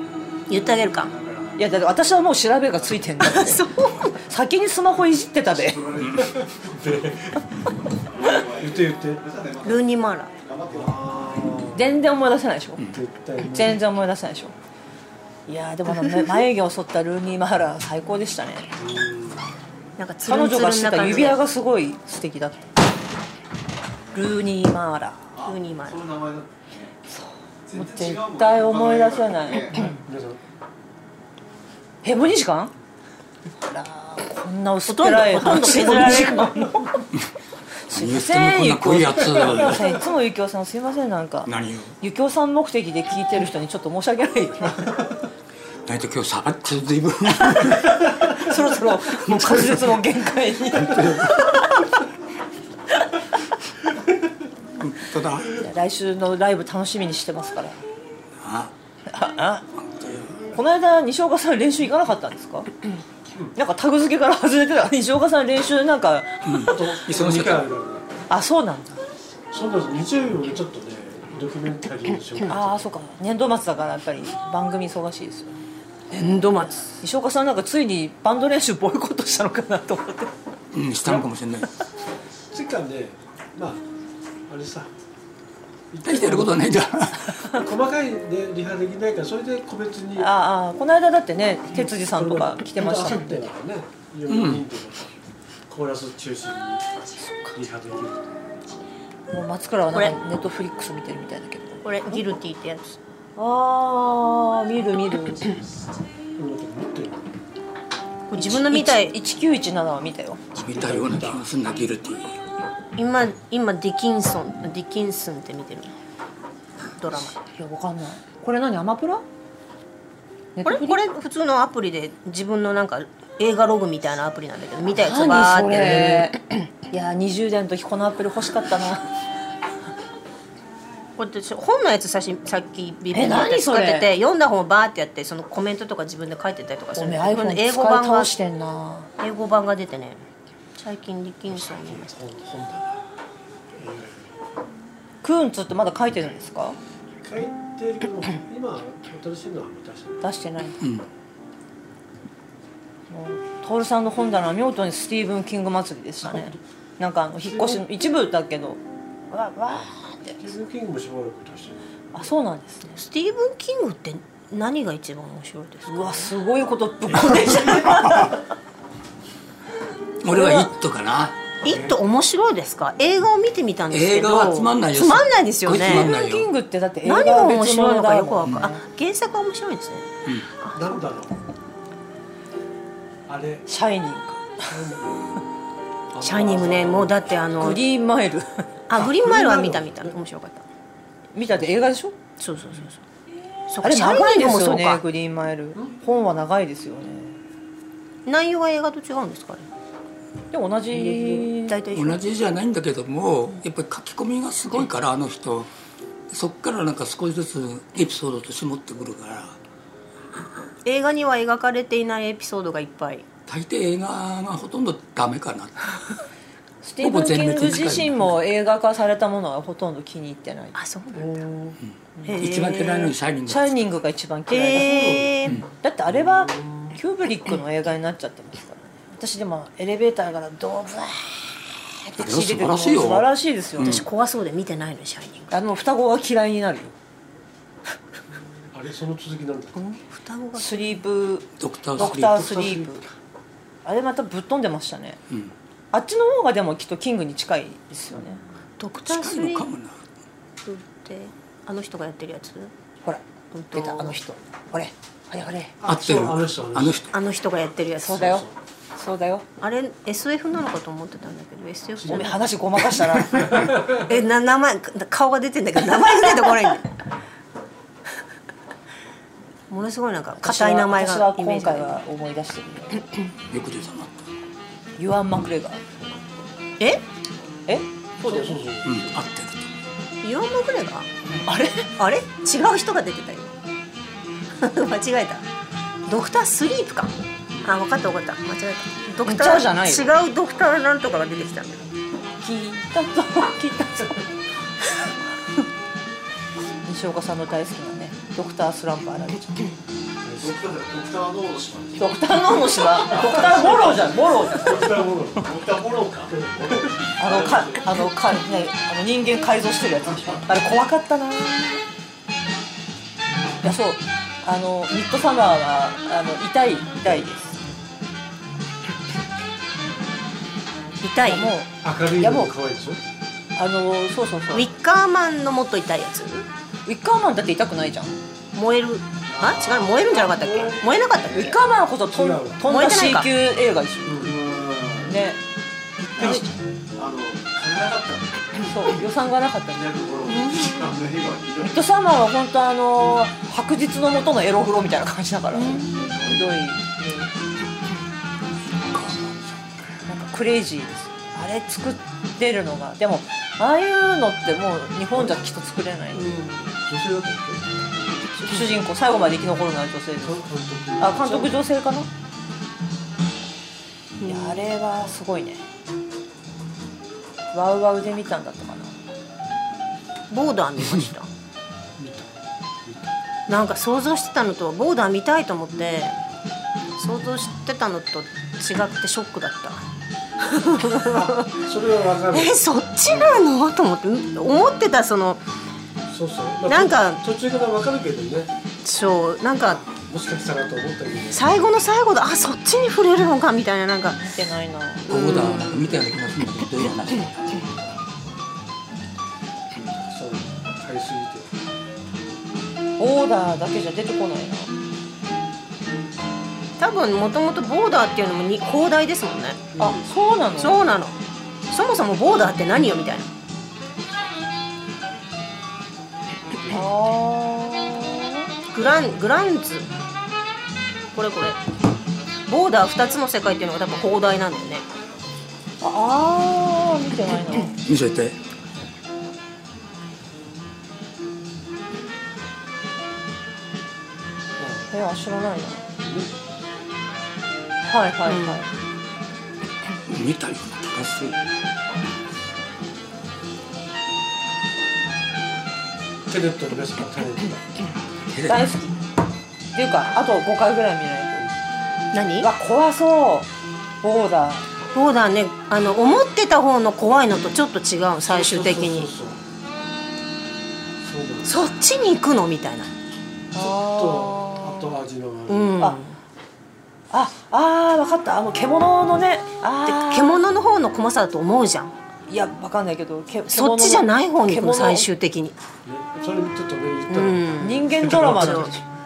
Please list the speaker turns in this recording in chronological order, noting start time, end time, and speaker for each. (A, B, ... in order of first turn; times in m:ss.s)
0:00.5-0:01.1 A
0:00.9-0:01.7 B
0:01.6-0:03.7 C
0:03.2-0:04.2 A
0:04.2-0:05.8 C
0:05.6-0:06.6 B
0:06.0-0:06.3 D
0:06.7-0:07.3 E
0:08.0-0:11.7 B
0:08.6-0:09.2 E
0:09.6-0:10.3 A
0:10.7-0:11.9 E
0:11.7-0:12.8 C
0:12.9-0:13.8 E
0:13.4-0:14.5 C
0:15.5-0:18.7 C
0:18.8-0:19.4 E
0:20.0-0:21.4 A
0:20.2-0:22.6 C
0:24.1-0:25.3 C
0:25.3-0:26.9 B
0:25.4-0:26.0 A
0:27.1-0:29.9 C
0:27.6-0:29.9 B
0:29.7-0:30.4 E
0:32.0-0:32.7 C
0:33.7-0:37.1 C
0:34.9-0:36.6 A
0:37.9-0:45.0 C
0:37.9-0:39.9 D
0:41.4-0:42.0 D
0:45.9-0:48.0 D
0:48.3-0:51.6 C
0:49.1-0:50.0 D
0:50.7-0:51.5 D
0:54.8-0:55.5 D
0:55.6-0:57.8 C
0:58.4-0:58.7 D
0:59.1-0:59.6 C
1:00.0-1:00.3 D
1:00.0-1:00.3 E
1:00.5-1:02.8 C
1:03.6-1:06.5 C
1:06.4-1:07.6 D
1:06.6-1:08.1 E
1:08.3-1:09.0 C
1:09.5-1:12.8 E
1:12.5-1:15.6 C
1:16.1-1:16.8 A
1:16.6-1:20.3 C
1:20.7-1:21.7 D
1:22.5-1:23.8 E
1:24.5-1:24.9 E
1:25.9-1:26.6 E
1:26.0-1:27.4 D
1:27.5-1:30.3 E
1:30.2-1:33.4 C
1:31.7-1:35.1 E
1:34.3-1:34.6 D
1:35.7-1:36.8 E
1:37.2-1:37.6 C
1:37.6-1:38.3 E
1:39.3-1:42.3 C
1:41.8-1:43.0 A
1:43.4-1:45.6 C
1:46.4-1:47.2 E
1:48.3-1:49.2 A
1:48.3-1:50.4 C
1:50.6-1:52.4 D
1:50.7-1:51.4 E
1:53.0-1:55.9 A
1:57.0-1:57.4 A
1:57.4-1:59.2 C
2:00.6-2:01.0 C
2:00.6-2:06.3 A
2:05.0-2:09.1 C
2:11.2-2:18.3 A
2:13.1-2:14.1 C
2:17.0-2:19.1 C
2:19.2-2:20.2 A
2:20.8-2:22.2 A
2:21.5-2:23.0 E
2:23.8-2:24.3 E
2:25.2-2:26.8 C
2:27.2-2:30.2 E
2:30.2-2:30.8 C
2:30.8-2:31.1 D
2:33.1-2:38.8 C
2:36.3-2:36.6 E
2:37.4-2:37.8 E
2:39.3-2:40.4 C
2:40.4-2:41.8 E
2:42.1-2:43.0 C
2:43.0-2:46.3 A
2:45.9-2:48.4 C
2:50.2-2:51.4 D
2:50.2-2:50.7 C
2:51.6-2:56.1 A
2:51.6-2:52.0 E
2:53.9-2:56.5 D
2:55.7-2:58.8 C
2:57.0-3:00.1 A
3:00.6-3:01.0 A
3:00.7-3:01.3 E
3:03.3-3:03.7 E
3:03.7-3:04.7 C
3:04.7-3:05.4 E
3:06.1-3:07.4 E
3:06.2-3:07.8 A
3:07.6-3:08.7 C
3:08.9-3:10.6 A
3:09.0-3:10.2 E
3:11.3-3:12.2 C
3:12.4-3:13.0 A
3:13.7-3:15.0 A
3:13.8-3:17.4 C
3:18.3-3:19.7 A
3:20.5-3:21.8 C
3:20.9-3:22.3 A
3:21.9-3:25.7 D
3:26.3-3:29.6 D
3:30.8-3:33.3 A
3:33.5-3:35.9 D
3:36.8-3:41.7 C
3:37.0-3:38.4 D
3:40.7-3:41.5 A
3:41.8-3:43.8 D
3:42.2-3:43.1 A
3:43.4-3:45.3 C
3:44.5-3:45.6 A
3:44.7-3:45.4 E
3:45.8-3:54.0 C
3:46.1-3:47.0 E
3:52.2-3:54.1 D
3:53.8-3:55.5 A
3:55.5-3:56.9 C
3:58.7-3:59.8 E
3:59.7-4:00.9 A
4:00.6-4:03.0 C
4:01.6-4:02.6 D
4:02.0-4:03.0 E
4:03.8-4:05.2 C
4:05.9-4:08.4 C
4:08.8-4:09.7 A
4:09.1-4:10.0 D
4:10.6-4:12.7 A
4:13.0-4:15.8 C
4:13.5-4:14.2 A
4:15.8-4:17.0 E
4:15.8-4:17.2 D
4:17.1-4:18.4 A
4:18.0-4:19.4 C
4:18.1-4:18.5 E
4:19.6-4:22.4 A
4:22.0-4:22.3 E
4:22.1-4:23.7 C
4:23.5-4:24.0 E
4:23.9-4:26.9 A
4:29.7-4:32.0 A
4:30.4-4:33.0 C
4:33.5-4:34.2 D
4:35.0-4:36.0 C
4:37.7-4:38.6 C
4:38.2-4:39.1 E
4:38.8-4:39.7 D
4:40.2-4:41.1 A
4:41.3-4:42.0 C
4:42.0-4:43.5 A
4:44.6-4:45.4 A
4:46.1-4:47.1 A
4:47.6-4:51.9 A
4:49.2-4:50.1 C
4:52.4-4:54.3 C
4:56.9-4:59.7 C
5:00.2-5:00.7 E
5:00.4-5:02.2 B
5:02.0-5:05.0 C
5:03.0-5:05.5 E
5:03.0-5:03.5 B
5:05.4-5:07.9 B
5:06.4-5:06.9 E
5:07.2-5:11.8 C
5:13.6-5:17.6 C
5:21.0-5:21.6 A
5:21.2-5:22.5 C
5:21.8-5:23.0 E
5:23.6-5:24.7 C
5:24.5-5:26.5 A
5:26.9-5:28.1 C
5:28.6-5:31.5 A
5:29.3-5:31.6 B
5:30.4-5:30.7 E
5:31.3-5:34.2 C
5:32.1-5:32.6 E
5:32.7-5:33.3 A
5:34.1-5:34.4 E
5:34.2-5:35.2 B
5:35.0-5:35.4 C
5:36.2-5:36.5 C
5:36.2-5:36.5 E
5:37.0-5:38.9 B
5:38.6-5:39.9 C
5:39.7-5:41.9 B
5:40.4-5:40.7 A
5:41.7-5:47.3 C
5:45.6-5:46.0 A
5:46.0-5:46.4 B
5:48.9-5:49.7 D
5:50.1-5:56.4 C
5:56.2-5:56.7 A
5:56.8-5:57.6 E
5:58.4-6:00.4 C
6:00.2-6:01.6 E
6:01.0-6:02.1 C
6:04.2-6:04.6 A
6:04.2-6:05.6 C
6:07.5-6:09.0 C
6:10.3-6:11.3 A
6:12.0-6:13.1 E
6:13.5-6:16.2 A
6:17.0-6:19.8 A
6:20.4-6:21.5 A
6:21.1-6:22.6 E
6:22.3-6:25.4 A
6:26.1-6:28.5 E
6:26.7-6:27.2 A
6:28.8-6:29.8 A
6:29.9-6:31.5 E
6:31.3-6:34.3 A
6:34.2-6:35.1 C
6:35.1-6:35.9 A
6:35.1-6:37.7 D
6:39.8-6:41.5 E
6:43.0-6:44.7 C
6:46.8-6:49.7 A
6:49.7-6:50.0 E
6:49.8-6:50.8 C
6:50.6-6:51.2 A
6:51.7-6:53.3 A
6:56.7-6:58.4 C
6:58.7-6:59.9 A
7:01.1-7:01.6 A
7:02.5-7:04.8 A
7:05.8-7:07.7 C
7:07.8-7:08.4 D
7:14.6-7:14.9 E
7:14.9-7:15.8 C
7:16.0-7:16.4 E
7:17.9-7:18.7 C
7:18.3-7:18.6 A
7:20.1-7:21.4 D
7:26.3-7:27.6 E
7:28.3-7:28.7 D
7:28.4-7:28.9 C
7:29.7-7:31.4 C
7:32.1-7:32.5 A
7:32.4-7:33.5 C
7:34.0-7:34.7 C
7:34.9-7:39.1 A
7:38.3-7:39.4 E
7:41.0-7:41.6 E
7:41.4-7:42.9 A
7:43.5-7:45.0 C
7:43.6-7:45.8 E
7:45.5-7:46.2 A
7:47.1-7:50.4 C
7:49.9-7:51.9 A
7:52.3-7:55.1 C
7:53.5-7:55.6 A
7:55.8-7:58.7 E
7:57.1-7:58.7 A
7:57.6-7:58.8 C